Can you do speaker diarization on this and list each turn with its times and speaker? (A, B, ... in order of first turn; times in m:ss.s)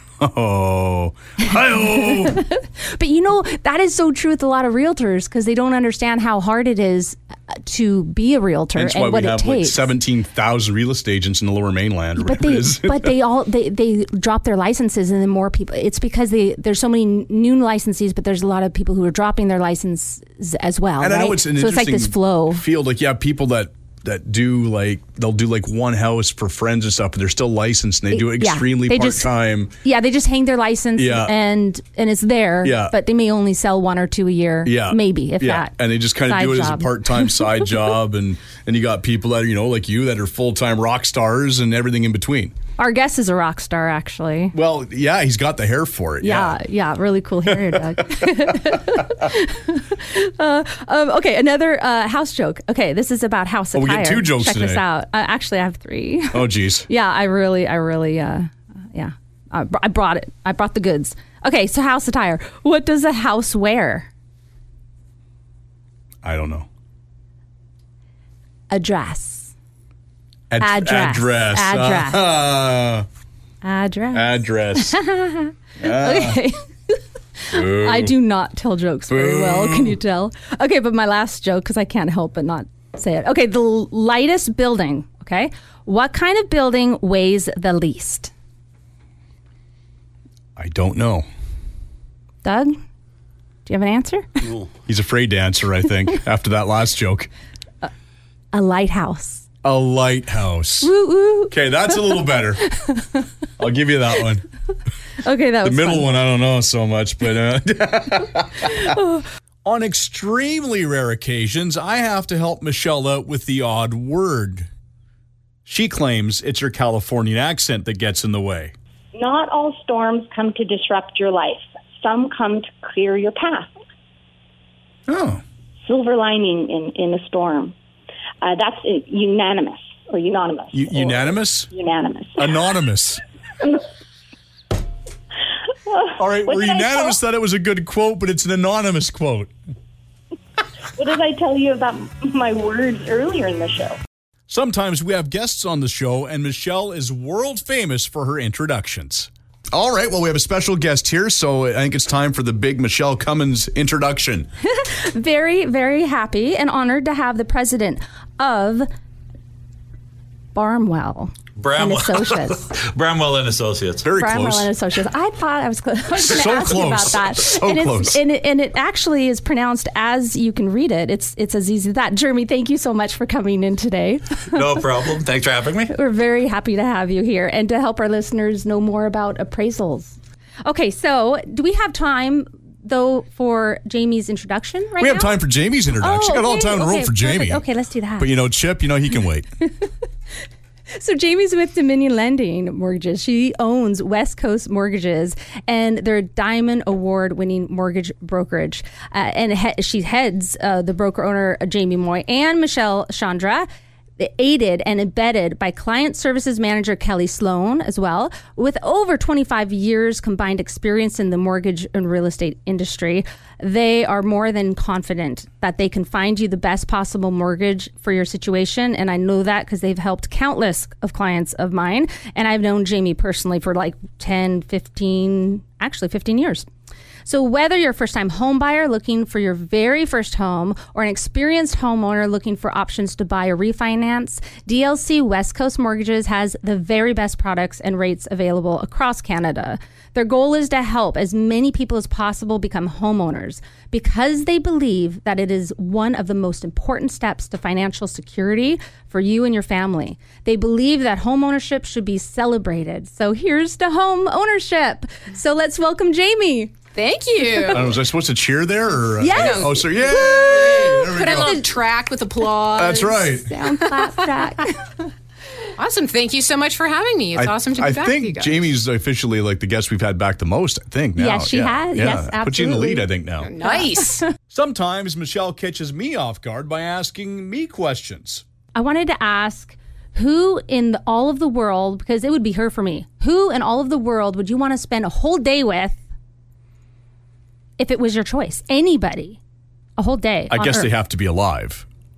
0:00.2-0:02.4 A
0:02.1-0:09.9 B
0:08.8-0:13.1 A
0:12.2-0:22.6 B
0:21.0-0:29.7 A
0:28.1-0:29.3 B
0:29.8-0:35.7 B
0:31.0-0:31.3 A
0:32.6-0:33.0 A
0:34.6-0:42.5 A
0:36.2-0:37.5 B
0:42.8-0:44.5 B
0:44.5-0:46.6 A
0:46.2-1:04.1 B
0:47.5-0:48.1 A
0:53.8-0:54.8 A
0:56.3-0:56.9 A
1:06.2-1:06.7 A
1:08.7-1:09.5 B
1:10.5-1:13.1 A
1:10.6-1:12.2 B
1:13.6-1:28.3 B
1:14.1-1:15.0 A
1:15.8-1:16.4 A
1:17.5-1:18.1 A
1:19.1-1:20.0 A
1:30.6-1:31.3 A
1:32.4-1:32.8 B
1:33.7-1:34.5 B
1:34.8-1:37.3 A
1:38.5-1:39.5 B
1:39.6-1:40.9 A
1:40.8-1:43.3 B
1:41.5-1:42.6 A
1:43.6-1:44.4 A
1:45.2-1:46.0 B
1:45.6-1:49.0 A
1:48.8-1:49.2 B
1:49.6-1:54.7 A
1:55.7-1:58.7 A
1:59.2-2:03.8 C
2:05.1-2:05.4 A
2:05.8-2:07.7 C
2:08.4-2:12.5 C
2:10.7-2:11.7 A
2:12.4-2:13.2 A
2:15.9-2:17.2 C
2:16.2-2:19.5 A
2:21.0-2:24.0 C
2:24.5-2:34.5 A
2:34.6-2:38.9 B
2:40.6-2:42.7 B
2:41.6-2:44.0 D
2:44.0-2:44.7 A
2:44.2-2:54.8 B
2:46.2-2:48.2 A
2:54.5-2:55.9 D
2:55.9-3:05.4 B
3:05.0-3:07.6 A
3:06.0-3:08.3 B
3:08.2-3:09.5 A
3:10.9-3:23.7 B
3:24.2-3:46.7 B
3:47.2-4:16.8 B
4:17.0-4:18.0 E
4:17.7-4:21.6 A
4:19.2-4:21.7 B
4:19.3-4:24.0 E
4:22.8-4:23.5 A
4:23.5-4:25.0 B
4:25.8-4:28.6 E
4:27.4-4:33.5 A
4:31.2-4:33.1 B
4:33.4-4:34.3 E
4:33.6-4:34.2 B
4:34.5-4:38.4 A
4:38.8-4:46.0 B
4:47.8-4:49.4 B
4:50.0-4:50.9 B
4:50.5-4:51.9 A